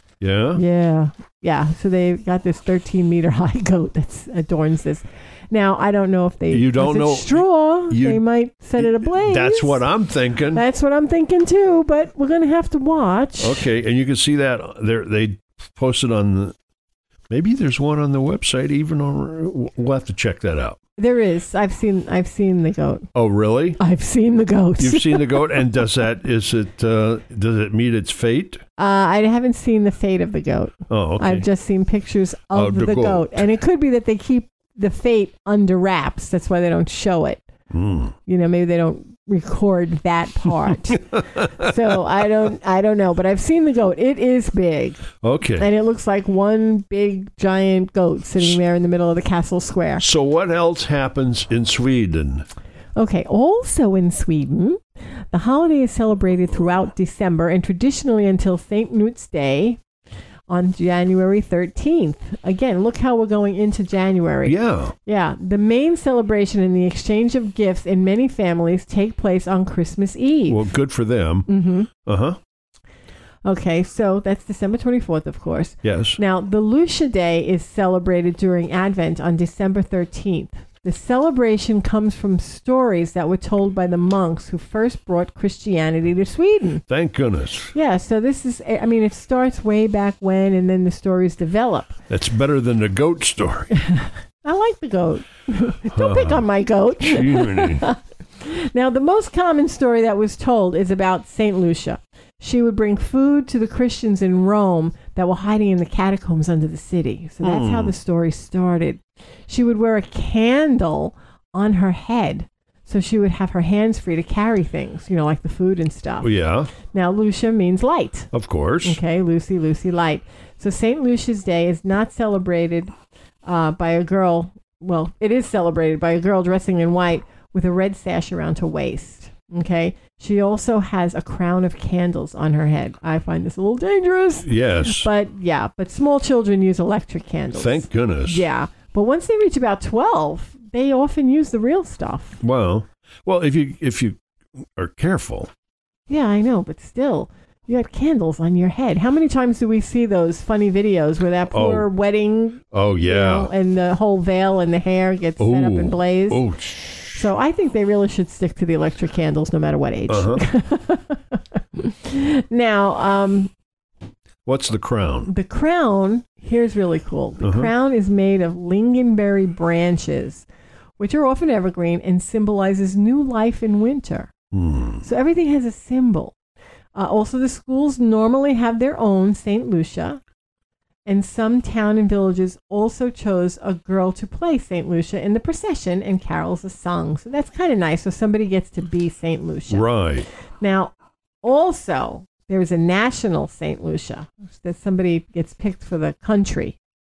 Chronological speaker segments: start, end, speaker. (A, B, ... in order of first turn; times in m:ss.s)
0:00.2-0:00.6 A
0:00.5-0:09.8 B
0:06.5-0:08.2 A
0:08.8-0:10.6 A
0:10.5-0:13.6 B
0:13.4-0:16.5 A
0:17.3-0:20.8 A
0:21.0-0:23.1 B
0:23.1-0:23.8 A
0:23.8-0:25.4 B
0:24.8-0:28.6 A
0:28.8-0:37.4 B
0:30.9-0:31.5 A
0:32.5-0:33.4 A
0:37.7-0:38.1 A
0:38.2-0:45.0 B
0:40.9-0:41.7 A
0:45.2-0:45.7 A
0:45.6-0:50.0 B
0:50.0-0:52.5 A
0:53.0-0:59.8 B
1:00.5-1:10.6 B
1:04.4-1:04.9 A
1:10.5-1:12.4 A
1:11.5-1:11.9 B
1:13.4-1:26.8 B
1:15.8-1:16.2 A
1:26.9-1:27.7 A
1:27.7-1:32.0 B
1:32.1-1:33.7 A
1:34.4-1:58.3 B
1:35.9-1:36.4 A
1:37.0-1:37.9 A
1:47.4-1:47.9 A
1:56.2-1:56.7 A
1:58.3-1:59.0 A
1:58.8-2:02.9 B
2:03.4-2:22.4 B
2:14.4-2:15.1 A
2:17.5-2:18.4 A
2:22.4-2:24.2 A
2:24.8-2:25.5 A
2:26.1-2:36.4 B
2:31.5-2:31.9 A
2:32.7-2:33.5 A
2:35.4-2:37.2 A
2:37.1-2:43.5 B
2:40.1-2:40.4 A
2:44.4-2:45.3 A
2:45.2-2:50.4 B
2:47.4-2:47.7 A
2:51.0-2:54.3 B
2:54.5-2:55.0 A
2:55.0-2:56.3 B
2:56.9-3:00.2 B
3:01.0-3:09.9 B
3:09.7-3:10.3 A
3:10.6-3:16.8 B